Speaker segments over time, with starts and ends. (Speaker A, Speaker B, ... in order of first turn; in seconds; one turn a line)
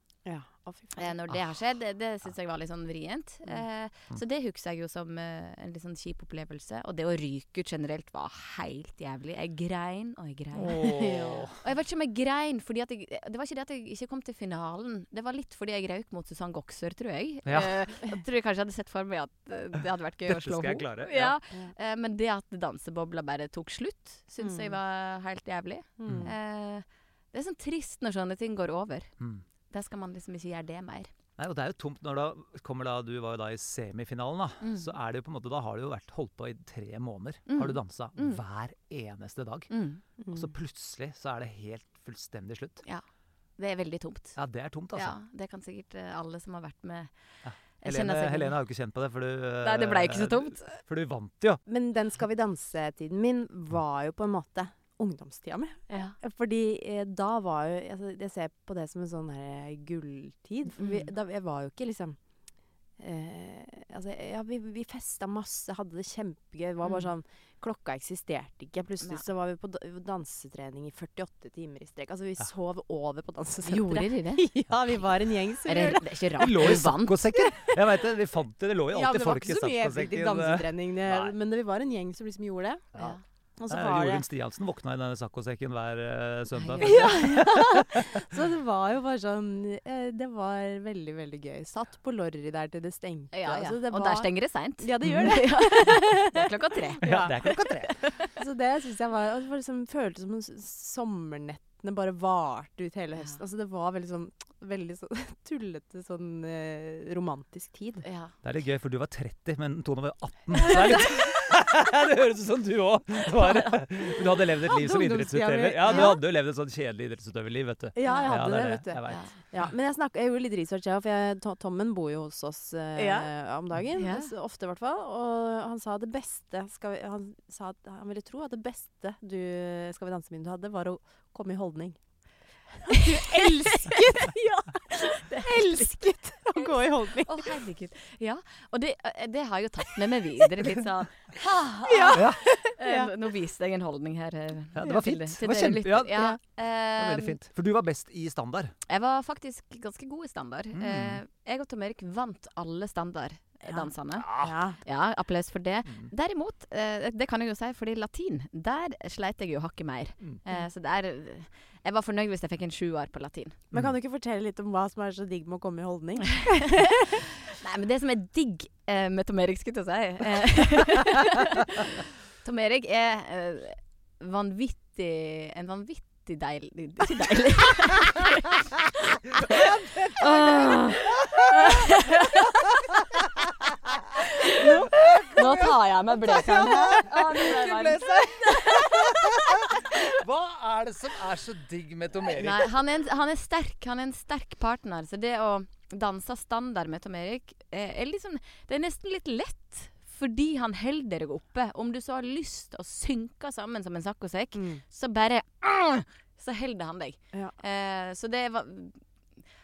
Speaker A: 0.3-1.1
Speaker B: 1.0-11.0
Speaker C: 10.6-11.6
Speaker A: 10.8-11.5
Speaker B: 11.6-29.1
Speaker C: 17.5-17.7
Speaker C: 20.3-21.4
Speaker A: 24.4-24.7
Speaker A: 26.0-26.3
Speaker C: 26.1-26.3
Speaker B: 29.7-31.1
Speaker C: 31.4-39.7
Speaker B: 34.6-34.9
Speaker B: 37.5-38.4
Speaker B: 39.7-40.0
Speaker A: 40.2-40.5
Speaker C: 40.3-42.8
Speaker B: 43.6-44.4
Speaker C: 44.4-45.2
Speaker B: 45.0-47.1
Speaker C: 47.4-51.6
Speaker B: 47.8-48.6
Speaker B: 49.6-50.8
Speaker A: 51.7-62.2
Speaker B: 55.9-56.2
Speaker B: 60.8-61.1
Speaker A: 63.0-76.1
Speaker B: 73.7-74.5
Speaker B: 75.7-77.3
Speaker C: 76.4-81.3
Speaker A: 78.9-83.0
Speaker A: 83.6-84.2
Speaker C: 83.7-88.1
Speaker B: 86.5-87.2
Speaker A: 86.8-97.4
Speaker B: 93.3-97.1
Speaker C: 95.0-95.4
Speaker C: 97.0-97.9
Speaker B: 97.9-98.2
Speaker A: 98.3-108.0
Speaker B: 108.0-108.3
Speaker C: 108.4-119.2
Speaker A: 114.6-116.2
Speaker A: 118.0-132.0
Speaker B: 123.0-123.3
Speaker B: 124.0-124.3
Speaker A: 132.8-137.5
Speaker B: 132.9-134.0
Speaker B: 135.0-136.0
Speaker B: 136.6-147.4
Speaker A: 141.9-143.1
Speaker C: 142.2-142.4
Speaker C: 144.7-146.3
Speaker C: 147.0-148.7
Speaker B: 148.9-163.6
Speaker C: 150.7-151.2
Speaker A: 153.7-154.8
Speaker C: 154.2-154.6
Speaker A: 163.7-167.3
Speaker B: 166.7-182.7
Speaker C: 179.3-181.9
Speaker B: 184.2-189.0
Speaker C: 184.6-192.7
Speaker B: 192.3-209.0
Speaker A: 204.5-204.8